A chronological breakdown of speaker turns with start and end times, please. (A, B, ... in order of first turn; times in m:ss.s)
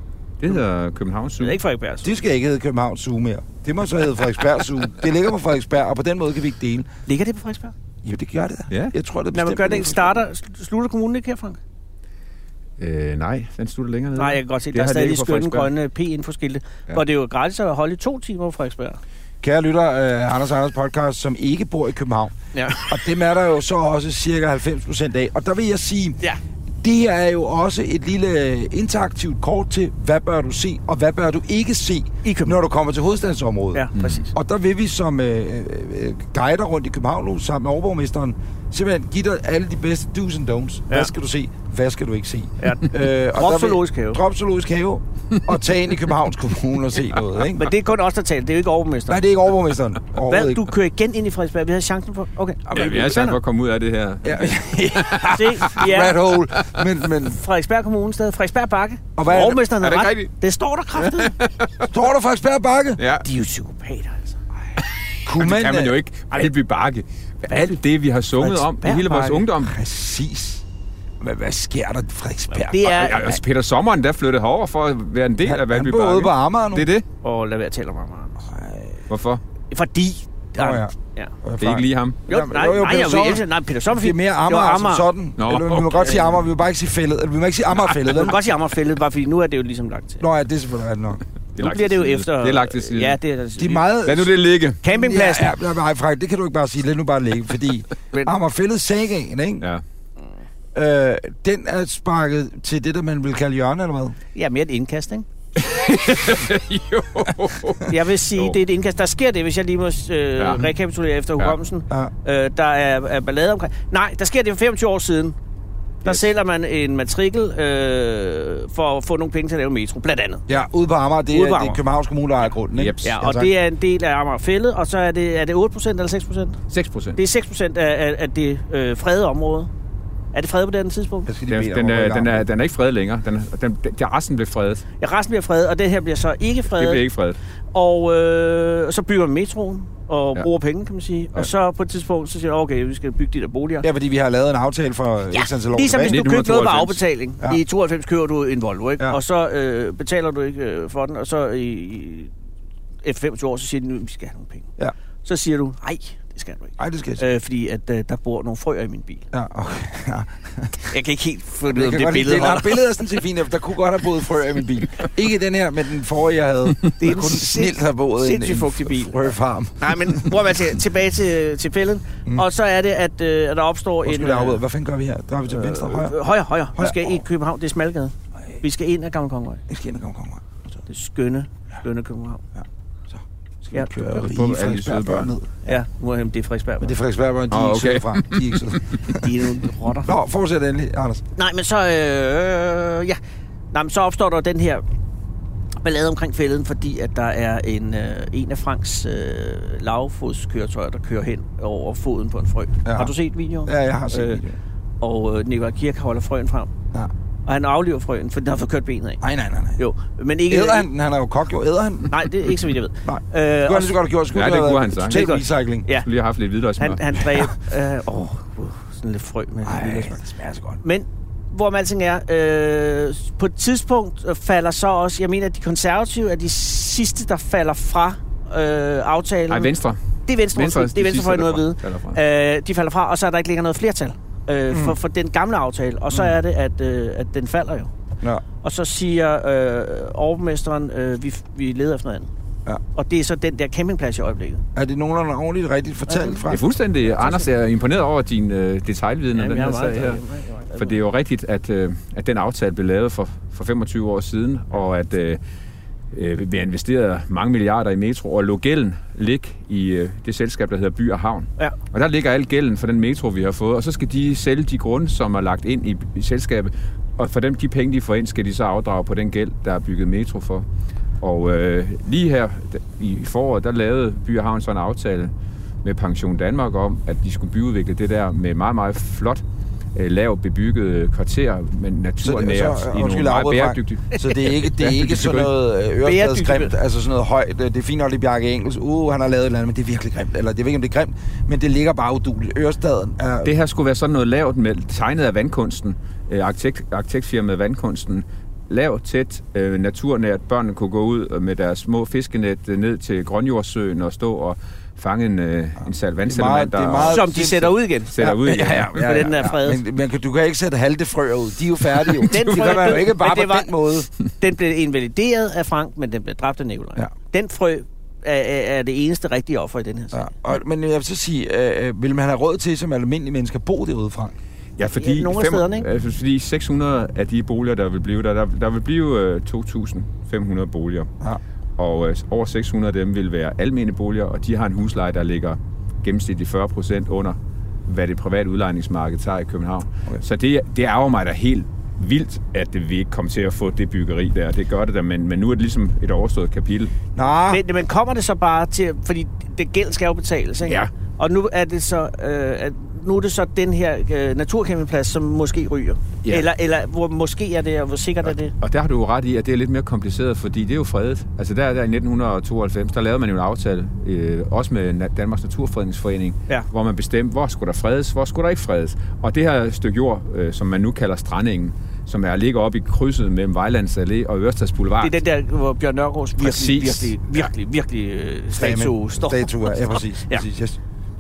0:00.4-0:01.6 A
0:01.4-0:02.1 B
0:02.0-0:06.9 C
0:07.1-0:07.7 B
0:08.0-0:10.2 C
0:09.3-0:11.6 B
0:12.8-0:15.7 A
0:14.2-0:19.0 B
0:19.4-0:22.3 C
0:22.5-0:23.0 B
0:22.9-0:26.2 C
0:26.8-0:47.7 C
0:32.2-0:32.6 B
0:33.7-0:34.3 B
0:34.0-0:34.2 A
0:42.6-0:44.2 B
0:47.6-0:49.2 B
0:49.1-0:50.7 C
0:50.2-0:53.3 B
0:52.7-0:53.4 C
0:52.7-0:55.8 A
0:54.2-0:57.4 C
0:55.2-0:56.2 B
0:56.6-0:56.9 A
0:57.2-1:01.4 B
0:59.2-0:59.6 C
0:59.5-1:00.3 A
1:01.0-1:01.9 A
1:01.8-1:03.0 C
1:03.0-1:03.3 A
1:03.2-1:04.4 B
1:05.2-1:06.0 C
1:05.3-1:09.8 A
1:07.5-1:07.8 B
1:08.4-1:09.4 B
1:09.5-1:10.6 C
1:11.2-1:13.4 C
1:12.5-1:13.3 B
1:12.8-1:17.0 A
1:15.4-1:16.9 C
1:17.2-1:18.4 B
1:18.4-1:19.0 C
1:19.1-1:19.4 A
1:19.7-1:21.3 B
1:20.6-1:28.4 C
1:21.6-1:22.2 A
1:22.3-1:25.1 B
1:25.4-1:26.2 A
1:26.0-1:26.4 B
1:28.1-1:30.3 B
1:30.2-1:31.2 C
1:31.6-1:33.2 A
1:31.6-1:33.9 B
1:33.6-1:34.3 C
1:34.0-1:34.8 A
1:34.8-1:35.6 B
1:34.8-1:39.6 C
1:40.8-1:44.2 C
1:44.4-1:45.3 B
1:45.6-1:48.6 A
1:47.9-1:55.4 B
1:50.4-1:50.6 A
1:56.0-2:00.5 B
2:00.5-2:03.5 C
2:01.3-2:01.8 B
2:02.8-2:03.2 A
2:03.0-2:06.6 B
2:06.7-2:07.2 A
2:07.2-2:09.7 B
2:10.3-2:11.3 B
2:11.3-2:12.5 C
2:11.5-2:14.8 A
2:15.0-2:17.0 B
2:16.8-2:17.4 A
2:17.7-2:23.9 B
2:23.8-2:26.3 C
2:25.3-2:32.3 B
2:26.0-2:27.0 A
2:33.0-2:34.7 B
2:35.2-2:39.3 B
2:36.8-2:37.2 C
2:39.3-2:40.9 C
2:40.9-2:42.9 B
2:41.7-2:50.6 C
2:47.0-2:54.6 B
2:54.0-2:56.2 C
2:55.5-2:59.6 B
2:56.8-2:57.2 C
2:59.7-3:00.8 C
3:00.9-3:02.4 B
3:02.6-3:05.8 C
3:04.0-3:05.3 A
3:05.6-3:07.0 B
3:06.8-3:09.3 C
3:07.5-3:08.8 A
3:09.2-3:10.1 B
3:10.1-3:11.2 C
3:11.4-3:13.2 B
3:13.7-3:14.8 B
3:15.8-3:24.4 B
3:22.8-3:23.1 C
3:23.6-3:24.6 C
3:25.0-3:26.7 B
3:27.5-3:29.2 B
3:29.2-3:29.8 C
3:29.8-3:30.9 B
3:30.5-3:32.3 C
3:32.1-3:34.0 B
3:33.0-3:35.9 C
3:34.3-3:35.3 A
3:35.1-3:36.1 B
3:36.0-3:37.0 A
3:36.8-3:40.2 B
3:39.6-3:40.8 C
3:40.8-3:49.7 B
3:49.5-3:50.0 A
3:50.3-3:57.9 B
3:50.5-3:52.2 A
3:54.7-3:55.0 C
3:58.6-4:02.3 B
4:03.0-4:04.6 B
4:04.8-4:06.7 C
4:06.1-4:06.4 B
4:06.5-4:10.2 A
4:09.4-4:11.0 B
4:10.8-4:15.4 A
4:16.1-4:30.7 A
4:31.2-4:35.3 A
4:35.8-4:39.4 A
4:40.0-4:45.5 A
4:42.2-4:53.5 C
4:46.0-4:46.7 B
4:53.4-5:09.1 A
5:06.3-5:14.1 C
5:07.0-5:09.8 B
5:12.1-5:13.0 A
5:12.2-5:20.3 B
5:20.1-5:24.4 C
5:24.8-5:31.1 A
5:25.0-5:25.9 B
5:31.8-5:46.9 A
5:47.2-5:47.6 C
5:47.5-5:58.5 B
5:58.3-6:15.2 A
6:15.0-6:20.4 B
6:16.4-6:17.5 A
6:18.5-6:20.8 C